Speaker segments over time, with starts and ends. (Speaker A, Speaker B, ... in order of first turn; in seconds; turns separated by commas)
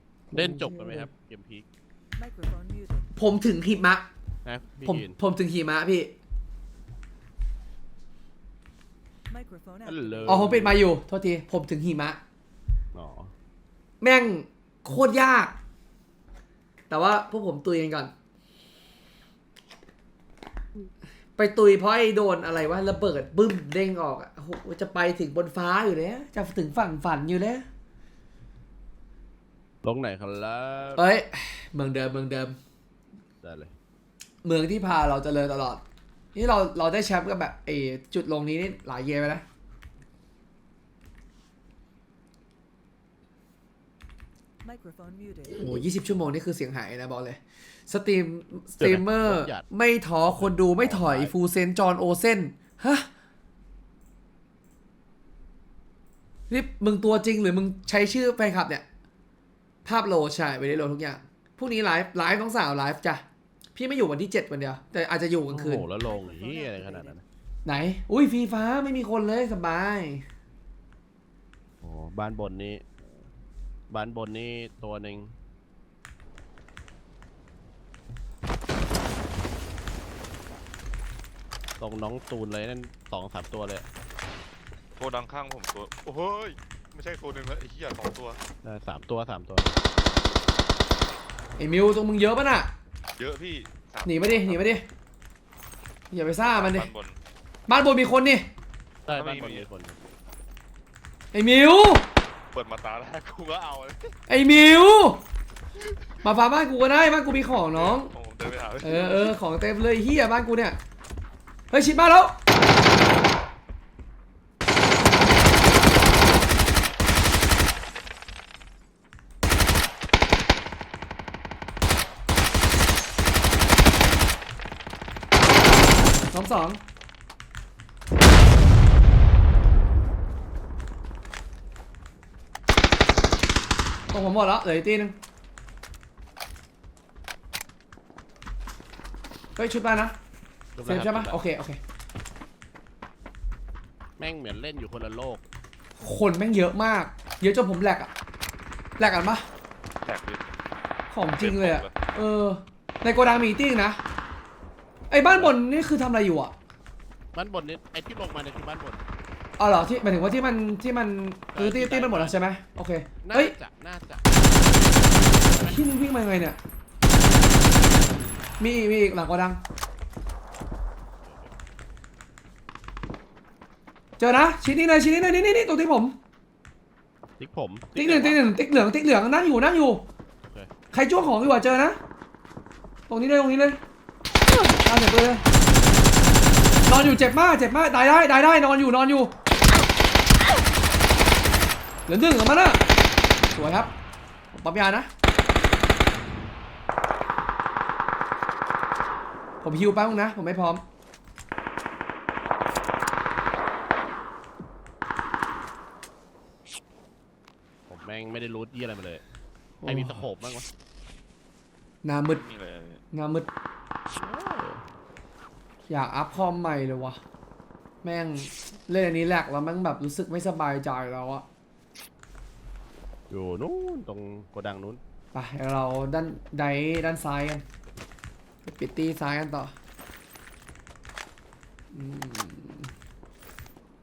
Speaker A: 0.3-1.1, Speaker B: 0.3-1.7, Speaker C: 2.1-3.1, Speaker A: 3.1-4.1, Speaker B: 4.4-5.2, Speaker A: 4.8-6.2, Speaker C: 9.3-10.6, Speaker B: 9.8-10.8, Speaker A: 10.2-12.2, Speaker B: 12.9-13.3, Speaker A: 14.0-15.5, Speaker A: 16.9-18.1, Speaker A: 21.4-27.6, Speaker B: 29.8-31.1, Speaker A: 30.9-32.6, Speaker B: 33.4-33.7, Speaker A: 34.4-35.8, Speaker A: 36.3-39.4, Speaker C: 44.6-45.6, Speaker A: 45.5-53.1, Speaker B: 48.8-49.6, Speaker B: 50.3-51.3, Speaker A: 56.5-58.9, Speaker A: 59.8-63.2, Speaker A: 63.7-65.8, Speaker B: 65.5-67.2, Speaker C: 66.0-67.2, Speaker A: 67.6-70.3, Speaker B: 71.8-72.9, Speaker B: 73.9-75.3, Speaker B: 81.8-83.8, Speaker D: 85.0-88.4, Speaker B: 88.6-89.7, Speaker A: 91.6-92.7, Speaker D: 93.2-94.6, Speaker A: 94.0-94.8, Speaker A: 96.1-96.9, Speaker D: 96.4-97.2, Speaker A: 97.7-98.5, Speaker B: 99.1-100.0, Speaker D: 99.1-99.7, Speaker A: 101.3-102.1, Speaker D: 102.5-104.2, Speaker A: 104.3-105.2, Speaker D: 105.8-106.2, Speaker A: 106.2-108.1, Speaker D: 107.7-109.3, Speaker A: 108.8-110.8, Speaker A: 111.7-112.4, Speaker A: 126.3-126.8, Speaker A: 134.1-135.2, Speaker A: 139.6-140.2, Speaker B: 140.8-141.4, Speaker A: 140.8-141.8, Speaker B: 144.2-145.4, Speaker A: 146.0-148.1, Speaker A: 149.0-149.4, Speaker D: 150.1-150.4, Speaker A: 151.1-154.0, Speaker D: 151.4-151.9, Speaker A: 155.1-156.5, Speaker B: 155.2-155.5, Speaker B: 157.3-159.0, Speaker A: 159.6-163.5, Speaker B: 161.5-162.4, Speaker B: 163.2-164.4, Speaker B: 165.2-165.8, Speaker A: 165.5-166.6, Speaker A: 168.6-169.6, Speaker B: 171.2-171.5, Speaker A: 174.2-176.2, Speaker B: 177.4-178.4, Speaker A: 177.9-180.1, Speaker B: 180.4-180.7, Speaker A: 180.9-182.0, Speaker A: 183.1-183.8, Speaker A: 184.5-185.4, Speaker A: 186.8-189.3, Speaker A: 192.1-192.8, Speaker A: 193.5-193.9, Speaker A: 194.5-195.1, Speaker A: 199.6-200.8, Speaker B: 207.9-209.2, Speaker A: 209.8-210.2, Speaker B: 209.8-210.7, Speaker A: 212.0-212.4, Speaker D: 212.3-213.0, Speaker A: 213.1-213.5, Speaker B: 214.1-214.9, Speaker A: 215.9-217.2, Speaker A: 218.0-221.4, Speaker B: 223.3-225.0, Speaker A: 225.3-227.6, Speaker A: 228.6-229.7, Speaker A: 231.9-232.9